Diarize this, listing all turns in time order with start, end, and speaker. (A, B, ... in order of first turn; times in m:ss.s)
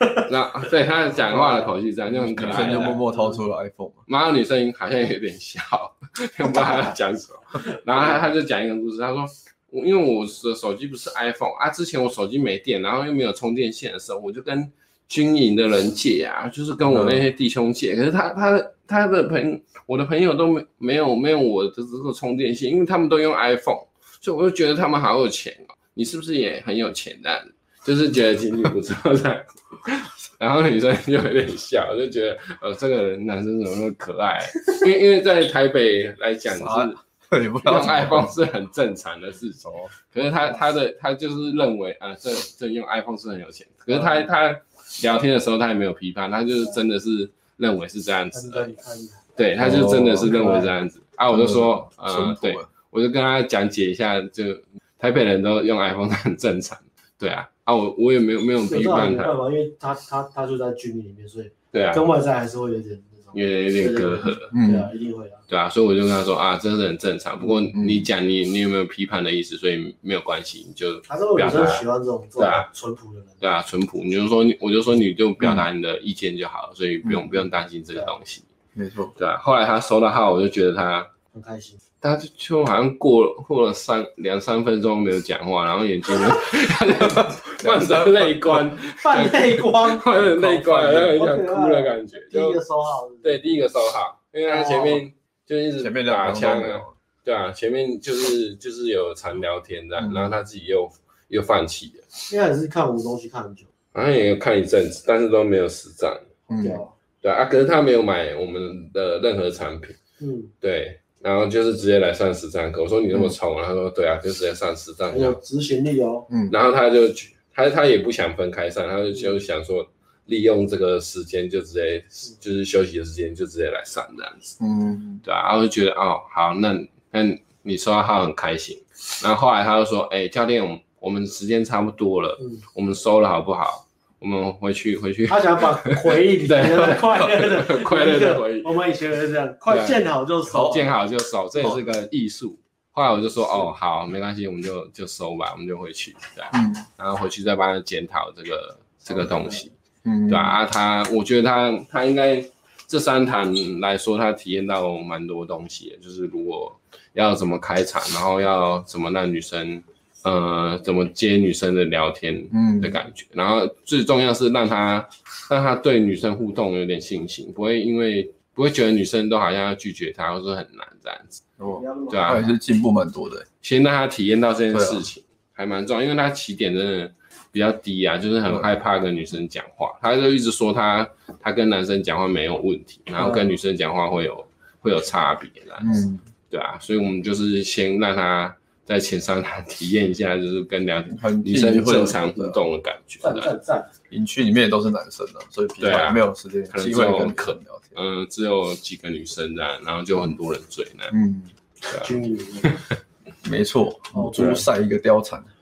0:00.2-0:03.0 A
0:01.3-0:01.7 B
0:02.2-0:04.0 C
0:02.6-0:03.4 B
0:04.1-0:37.0 A
0:16.8-0:17.2 C
0:36.5-0:38.3 C
0:37.6-0:48.7 A
0:39.6-0:39.9 C
0:43.9-0:44.2 B
0:48.3-0:49.2 B
0:49.4-0:59.4 A
0:49.6-0:50.4 C
0:50.2-0:50.7 B
0:51.3-0:52.7 C
0:58.7-1:05.4 B
1:01.7-1:02.0 A
1:03.3-1:04.5 A
1:04.5-1:04.9 C
1:05.5-1:11.8 A
1:07.8-1:08.0 C
1:11.1-1:13.3 B
1:12.4-1:12.7 A
1:13.4-1:18.4 A
1:15.4-1:15.6 C
1:17.0-1:17.3 C
1:18.7-1:19.1 C
1:19.2-1:21.1 A
1:21.3-1:21.8 B
1:22.0-1:32.6 A
1:27.6-1:28.4 C
1:29.0-1:33.5 B
1:33.2-1:42.1 A
1:34.5-1:35.0 B
1:35.8-1:36.9 C
1:40.0-1:40.3 C
1:42.3-1:43.7 B
1:43.9-1:46.3 A
1:46.5-1:46.8 C
1:46.5-1:46.9 B
1:47.2-1:50.0 A
1:50.2-1:50.5 B
1:50.6-1:55.4 A
1:55.1-1:56.3 B
1:56.5-2:04.6 A
2:04.6-2:05.2 C
2:05.2-2:18.7 A
2:15.3-2:20.9 B
2:19.7-2:20.0 A
2:20.5-2:29.7 A
2:26.5-2:26.8 C
2:29.3-2:29.6 B
2:30.0-2:30.6 C
2:30.3-2:51.4 A
2:42.5-2:43.0 C
2:51.6-2:53.4 C
2:51.7-2:52.5 B
2:52.1-2:52.4 A
2:53.6-3:13.5 A
2:54.7-2:55.0 C
3:05.8-3:06.2 C
3:11.1-3:12.6 C
3:13.2-3:13.9 B
3:14.1-3:18.0 C
3:15.8-3:21.1 A
3:21.1-3:21.5 C
3:21.9-3:22.8 B
3:23.4-3:25.5 C
3:24.1-3:24.6 B